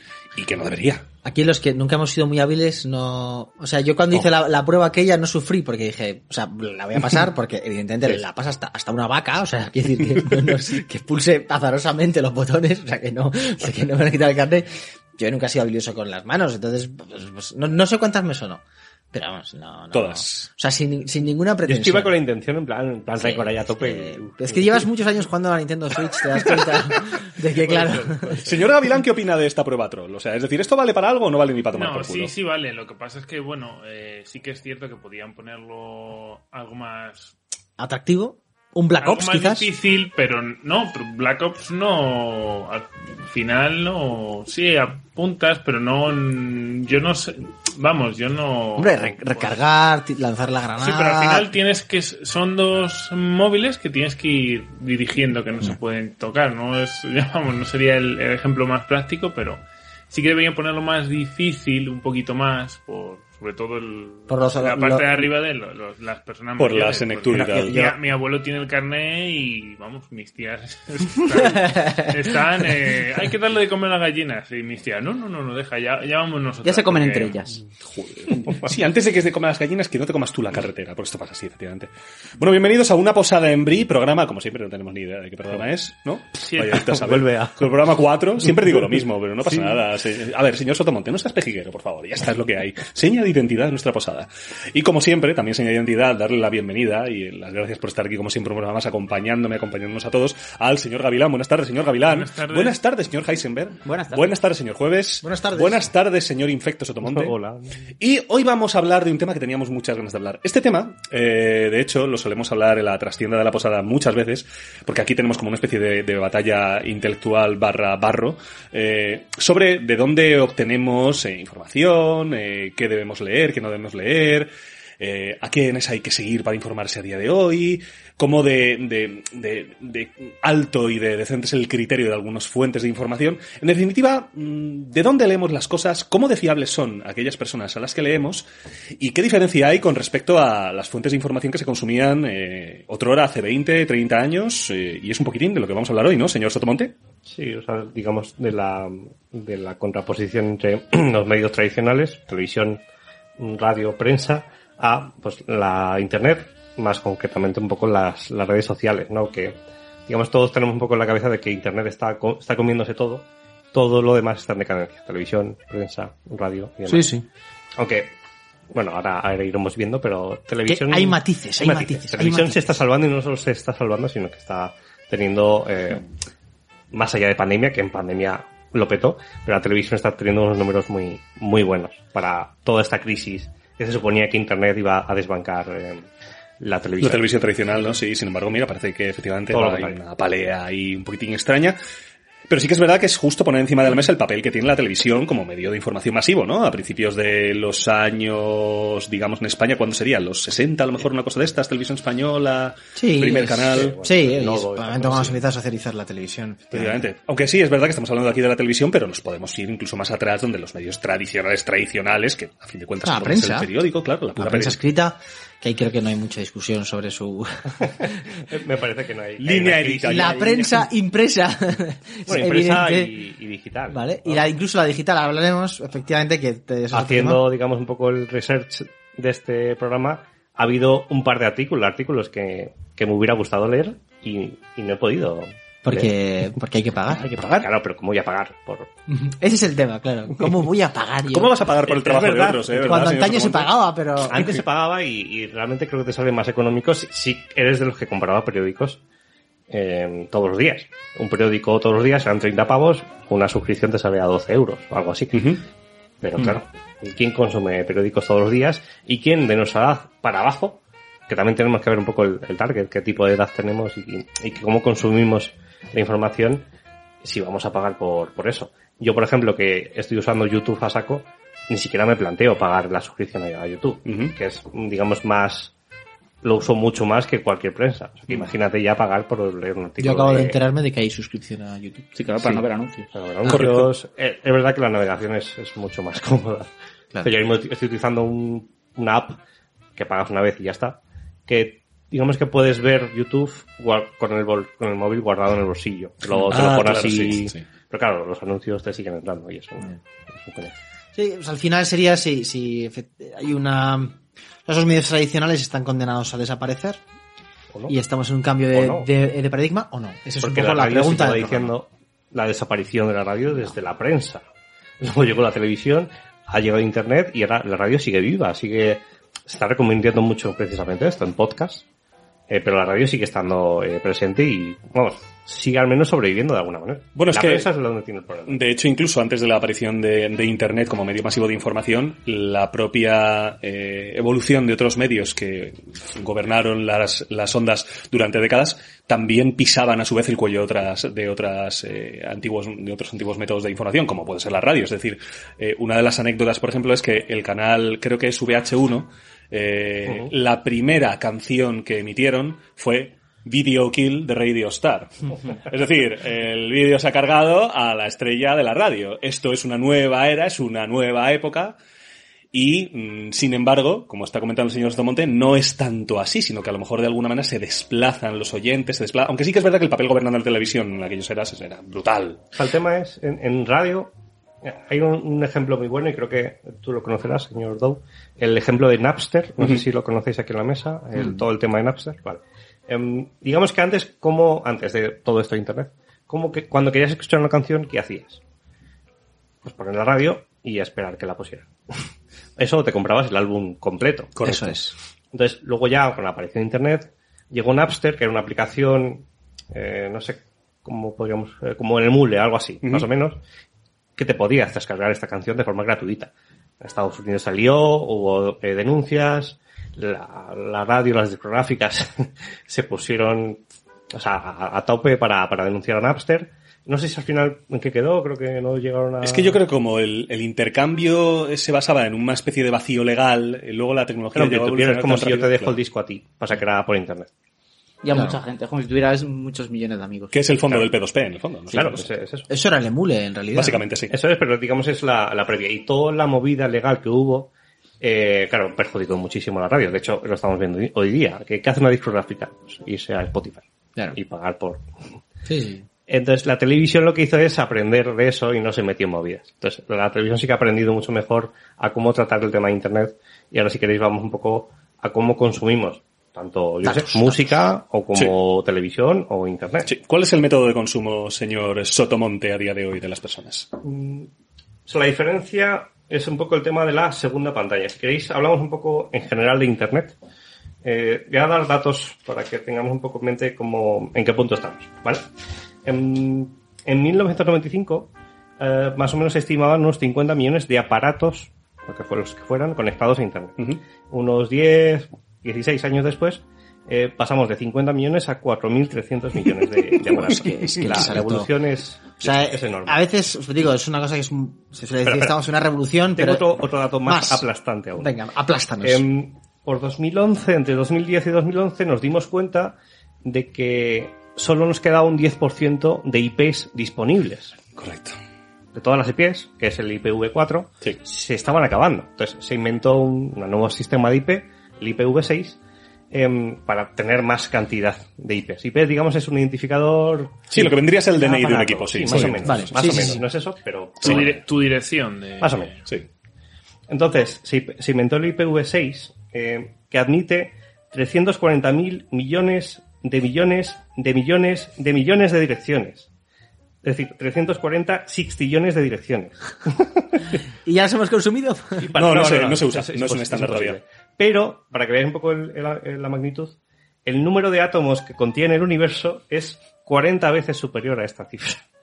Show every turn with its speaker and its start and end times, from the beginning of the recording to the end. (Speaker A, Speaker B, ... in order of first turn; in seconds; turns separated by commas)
Speaker A: 0.3-1.1, Speaker B: 1.2-22.1, Speaker A: 19.9-20.5, Speaker C: 21.6-24.9, Speaker B: 23.2-28.4, Speaker A: 26.4-27.0, Speaker C: 27.6-27.9, Speaker D: 27.7-28.3, Speaker A: 28.4-32.3, Speaker D: 31.7-37.3, Speaker B: 37.8-39.7, Speaker D: 39.0-49.5, Speaker B: 48.8-51.5, Speaker D: 50.8-77.4, Speaker B: 64.3-65.3, Speaker A: 66.6-67.8, Speaker B: 67.3-68.0, Speaker E: 76.6-77.6, Speaker A: 77.8-107.3, Speaker D: 86.4-87.2, Speaker C: 87.0-87.5, Speaker D: 102.0-102.8, Speaker E: 103.8-104.3, Speaker B: 105.2-105.9, Speaker C: 107.0-107.7, Speaker A: 108.0-146.9, Speaker C: 147.2-152.8, Speaker C: 153.4-167.1, Speaker B: 166.9-167.2, Speaker C: 167.8-168.1, Speaker C: 168.7-176.0, Speaker B: 170.7-172.8, Speaker C: 176.9-186.1, Speaker C: 186.6-187.3, Speaker A: 187.0-191.8, Speaker C: 189.5-190.0, Speaker A: 192.5-203.9, Speaker B: 202.9-207.1, Speaker C: 203.7-205.4, Speaker A: 206.7-214.8, Speaker B: 213.0-213.7, Speaker B: 214.3-218.1, Speaker C: 217.8-220.6, Speaker A: 219.4-220.8, Speaker B: 220.1-223.2, Speaker C: 222.3-224.4, Speaker B: 223.9-227.4, Speaker C: 226.9-236.1, Speaker B: 235.8-237.7, Speaker C: 237.1-238.9, Speaker B: 239.1-241.5, Speaker A: 241.3-243.8, Speaker C: 241.9-242.7, Speaker B: 242.4-244.6, Speaker C: 244.3-249.0, Speaker C: 249.7-255.6, Speaker A: 255.3-255.6, Speaker C: 256.2-266.6, Speaker C: 267.2-275.7, Speaker A: 274.1-274.3, Speaker C: 276.4-280.6, Speaker B: 280.0-282.6, Speaker E: 282.1-283.1, Speaker C: 283.1-286.7, Speaker A: 283.4-283.9, Speaker C: 287.2-289.4, Speaker C: 289.9-300.7, Speaker A: 296.5-297.6, Speaker B: 301.1-307.0, Speaker B: 307.9-311.7, Speaker C: 308.7-309.1, Speaker C: 310.4-314.4, Speaker C: 315.0-321.8, Speaker C: 322.5-328.6, Speaker A: 327.1-327.7, Speaker A: 328.5-361.8, Speaker A: 362.5-372.4, Speaker C: 372.5-388.4, Speaker C: 389.6-392.1, Speaker C: 392.6-394.6, Speaker B: 394.4-394.9, Speaker A: 394.4-394.7, Speaker C: 395.3-403.4, Speaker C: 404.1-419.6, Speaker A: 419.2-425.8, Speaker C: 424.3-427.3, Speaker E: 428.0-430.4, Speaker B: 428.1-428.4, Speaker A: 430.3-432.1, Speaker C: 431.7-432.5, Speaker B: 432.5-433.8, Speaker A: 433.5-434.1, Speaker C: 434.1-444.9, Speaker B: 445.4-445.9, Speaker C: 446.1-459.9, Speaker B: 456.8-457.5, Speaker A: 459.9-463.7, Speaker C: 463.8-464.3, Speaker C: 464.9-470.1, Speaker C: 470.8-475.2, Speaker C: 475.8-483.6, Speaker C: 484.1-493.0, Speaker A: 490.1-491.1, Speaker B: 490.4-491.5, Speaker B: 492.2-496.4, Speaker C: 495.1-495.3, Speaker C: 496.1-498.1, Speaker B: 497.0-497.4, Speaker B: 498.0-499.0, Speaker C: 498.8-507.6, Speaker A: 507.7-508.1, Speaker C: 508.7-515.6, Speaker C: 516.1-524.4, Speaker A: 520.5-523.1, Speaker B: 522.1-523.2, Speaker A: 524.0-524.3, Speaker D: 524.0-525.8, Speaker C: 525.4-525.7, Speaker C: 526.9-536.1, Speaker C: 536.8-540.2, Speaker B: 540.6-541.8, Speaker C: 541.8-551.6, Speaker A: 542.0-543.8